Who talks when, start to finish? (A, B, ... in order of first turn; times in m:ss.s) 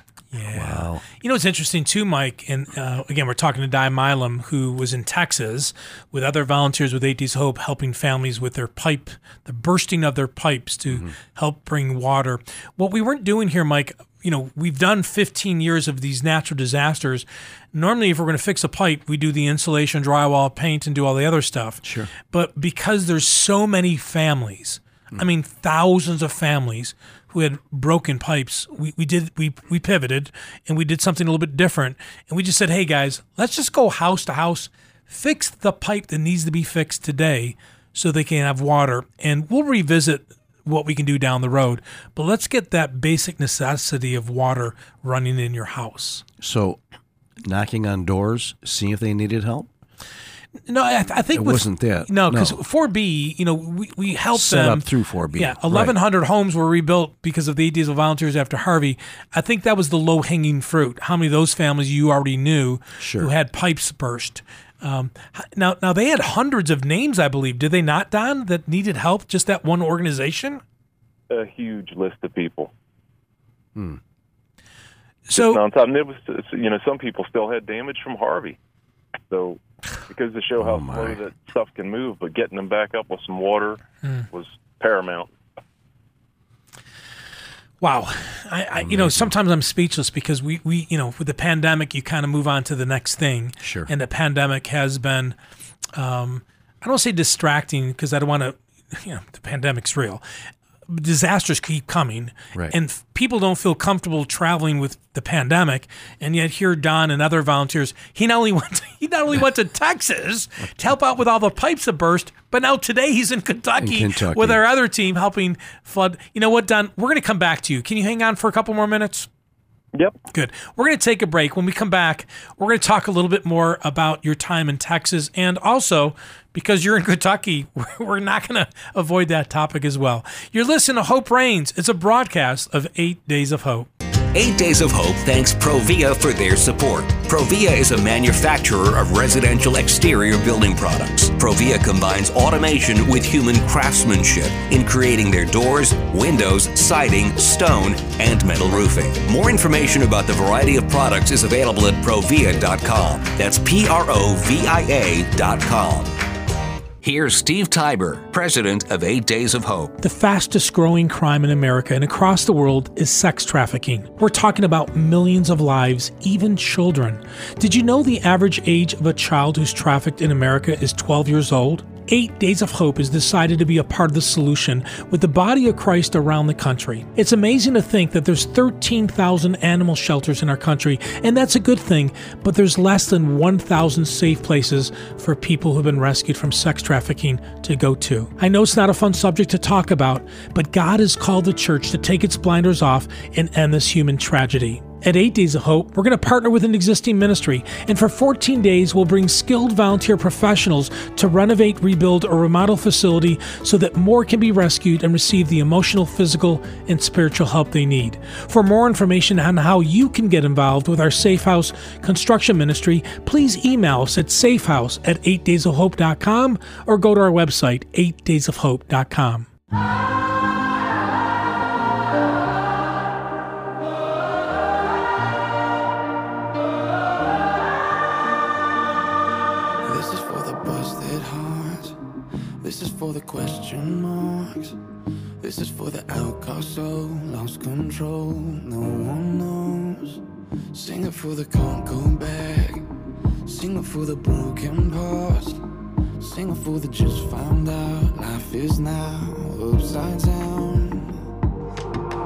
0:00.3-0:46.2 A
0:00.5-0:01.0 B
0:21.8-0:22.1 B
0:46.4-0:46.8 B
0:47.4-0:49.7 B
0:50.7-1:10.6 A
0:51.3-0:52.6 B
0:54.4-0:56.0 B
1:03.0-1:03.3 B
1:11.3-1:12.7 C
1:13.8-1:14.0 B
1:15.3-1:15.6 A
1:15.3-1:18.6 C
1:19.3-1:25.3 C
1:20.6-1:21.2 B
1:27.8-1:35.4 A
1:28.8-1:29.3 B
1:33.6-1:33.9 B
1:36.0-1:40.2 A
1:40.9-1:59.3 A
1:53.8-1:54.6 B
2:00.3-2:13.9 A
2:14.3-2:36.2 D
2:37.0-2:40.0 D
2:40.0-3:39.5 A
3:49.8-3:52.0 E
3:52.6-3:54.8 E
3:55.4-4:00.2 E
4:00.7-4:02.9 E
4:03.5-4:05.6 E
4:06.2-4:11.2 E